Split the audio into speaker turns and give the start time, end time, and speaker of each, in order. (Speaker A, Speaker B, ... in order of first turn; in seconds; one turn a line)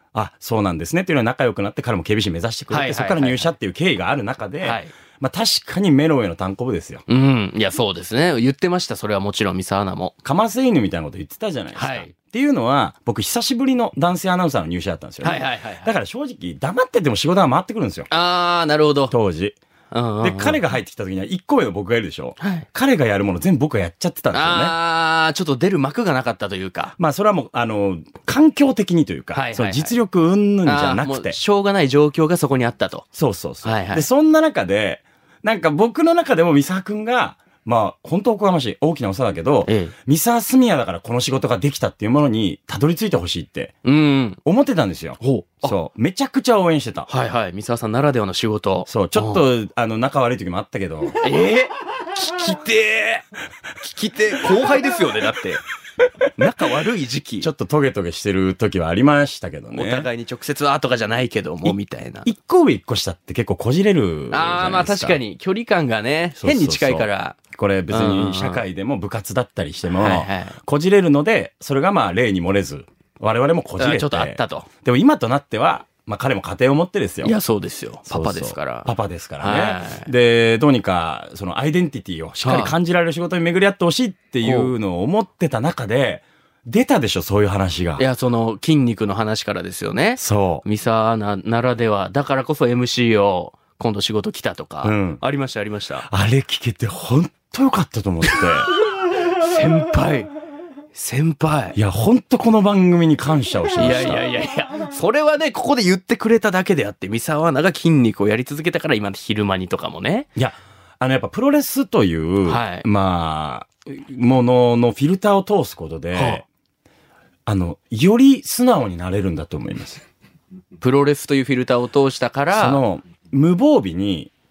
Speaker A: 0.1-7.0
Speaker B: 2.7-3.5
Speaker B: 4.6-4.9
Speaker B: 7.1-10.1
Speaker A: 10.2-18.1
Speaker B: 11.8-12.1
Speaker B: 15.2-15.9
Speaker B: 18.1-19.1
Speaker A: 19.1-19.6
Speaker B: 19.9-20.6
Speaker A: 20.2-24.7
Speaker B: 22.4-22.6
Speaker B: 24.3-26.9
Speaker A: 27.0-31.4
Speaker B: 29.3-29.9
Speaker B: 30.6-33.0
Speaker A: 33.1-43.7
Speaker B: 33.6-34.0
Speaker B: 39.6-39.9
Speaker B: 43.8-44.4
Speaker A: 44.4-47.1
Speaker B: 45.2-45.8
Speaker B: 47.1-49.4
Speaker A: 48.9-51.2
Speaker B: 51.2-53.2
Speaker B: 53.8-55.6
Speaker B: 56.4-57.5
Speaker A: 57.4-60.1
Speaker B: 59.7-62.3
Speaker A: 61.6-65.2
Speaker B: 64.3-67.4
Speaker A: 66.4-77.3
Speaker B: 67.9-68.6
Speaker B: 69.9-70.6
Speaker B: 73.8-74.7
Speaker B: 77.2-80.1
Speaker A: 78.1-88.0
Speaker B: 82.4-82.7
Speaker B: 84.4-84.7
Speaker B: 88.0-96.1
Speaker A: 90.2-90.6
Speaker A: 94.8-95.2
Speaker A: 96.0-98.7
Speaker B: 99.2-100.3
Speaker B: 100.9-101.8
Speaker A: 101.7-104.2
Speaker B: 103.8-110.3
Speaker A: 110.3-116.4
Speaker B: 112.5-112.8
Speaker B: 116.1-116.4
Speaker A: 117.5-120.0
Speaker B: 120.8-122.8
Speaker A: 122.5-124.3